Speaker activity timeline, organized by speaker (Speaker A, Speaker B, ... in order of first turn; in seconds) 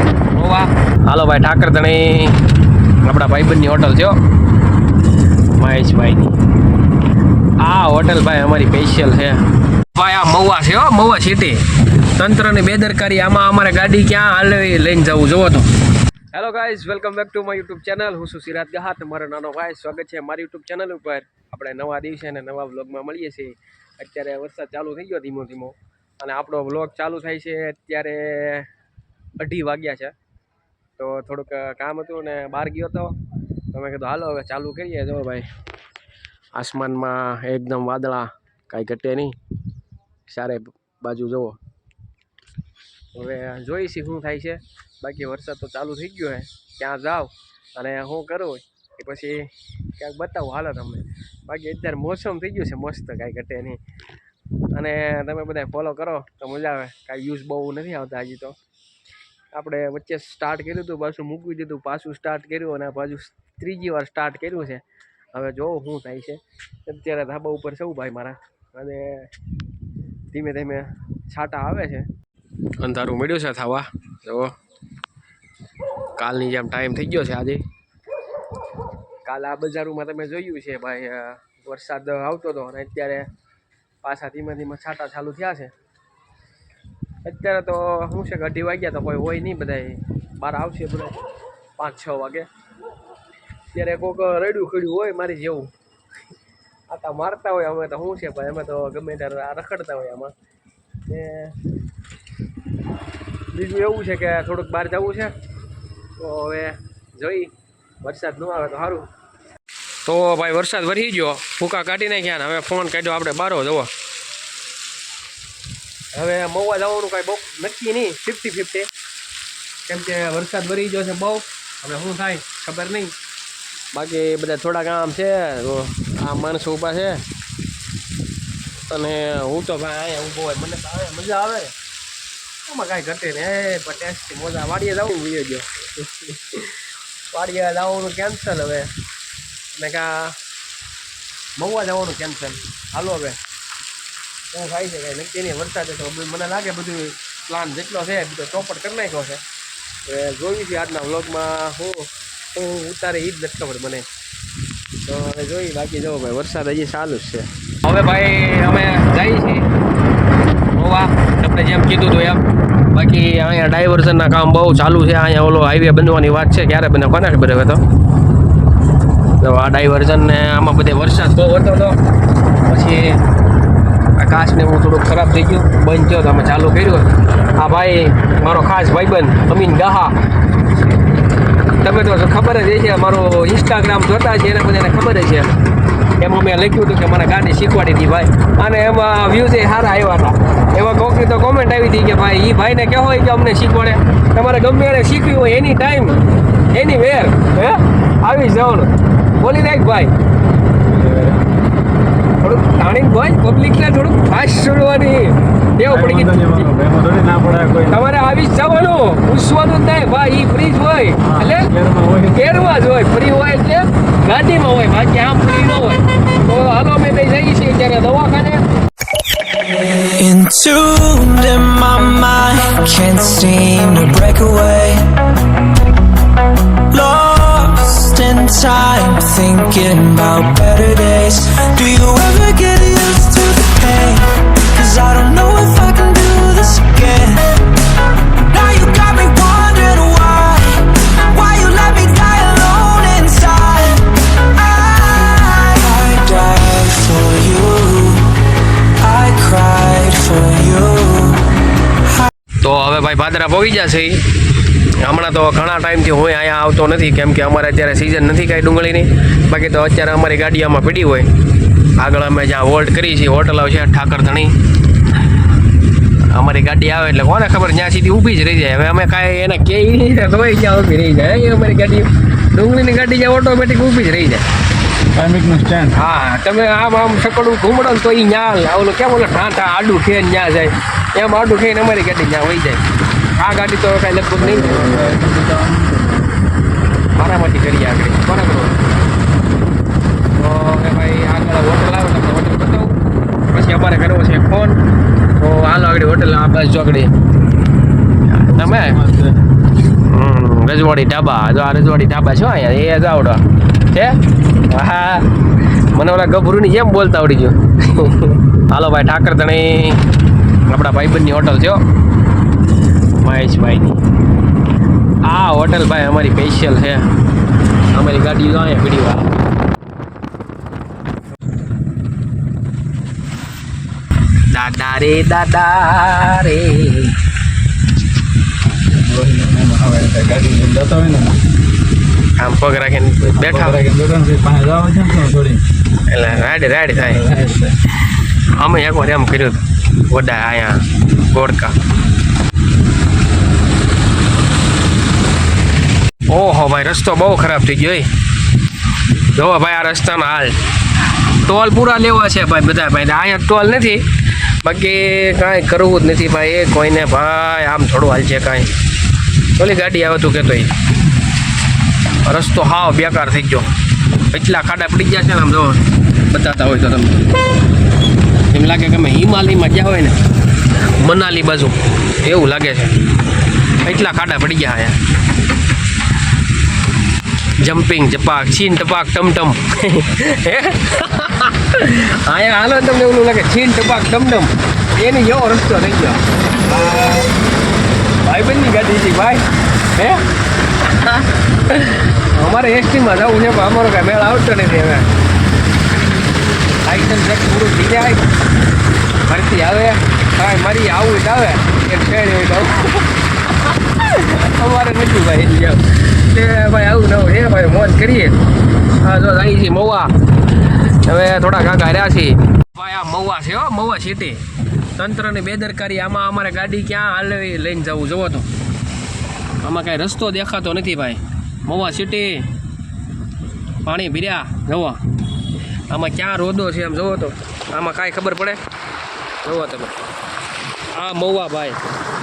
Speaker A: 0.3-2.4, 3.0-4.2, 5.5-6.4, 7.6-15.7, 16.3-28.7, 29.4-30.1, 31.0-33.2, 33.7-35.5, 36.5-39.4, 40.3-41.6, 43.1-53.8, 54.7-58.6, 59.5-69.3, 70.3-72.1, 72.8-74.5, 76.2-77.7, 79.2-83.3, 84.0-85.7, 87.2-91.2, 91.8-92.5, 93.7-95.7, 96.9-100.3, 101.0-101.6, 103.5-105.4, 106.2-109.1, 110.0-113.9, 116.1-118.9, 119.9-123.2, 123.9-127.2, 128.8-131.8, 132.7-138.9, 139.7-140.4, 141.6-143.4, 144.5-149.4, 150.1-154.1, 155.0-159.7, 160.7-167.8, 169.4-172.0, 172.6-173.2, 174.2-180.2, 181.8-185.5, 186.2-200.1, 202.4-206.7, 207.8-211.7, 212.3-218.6, 252.6-254.3, 255.0-261.3, 261.9-264.6, 266.2-274.5, 275.9-282.8, 283.3-285.2, 287.1-288.8, 290.3-293.0, 293.5-294.8, 295.4-297.1, 298.3-299.0, 299.9-305.3, 305.9-310.0, 310.7-311.8, 313.2-314.0, 315.2-317.1, 317.9-319.4, 324.5-327.2, 332.4-333.8, 336.1-337.3, 338.4-341.8, 346.3-348.1, 349.3-350.6, 351.4-354.1, 354.6-358.7, 359.6-360.7, 362.2-363.7, 364.3-367.3, 368.5-370.2, 371.0-373.0, 373.8-375.0, 377.6-387.3, 388.2-390.2, 390.8-395.1, 396.9-398.3, 399.2-408.4, 409.0-410.1, 410.8-418.5, 419.6-422.5, 423.8-425.0, 425.9-428.6, 429.4-430.0, 430.9-431.8
Speaker B: 200.9-201.5, 205.9-208.0, 211.2-212.4, 275.1-276.0, 284.4-286.3, 298.5-299.4, 328.9-331.4, 333.3-335.6, 337.0-337.8
Speaker C: 219.7-225.3, 226.9-237.7, 238.3-252.3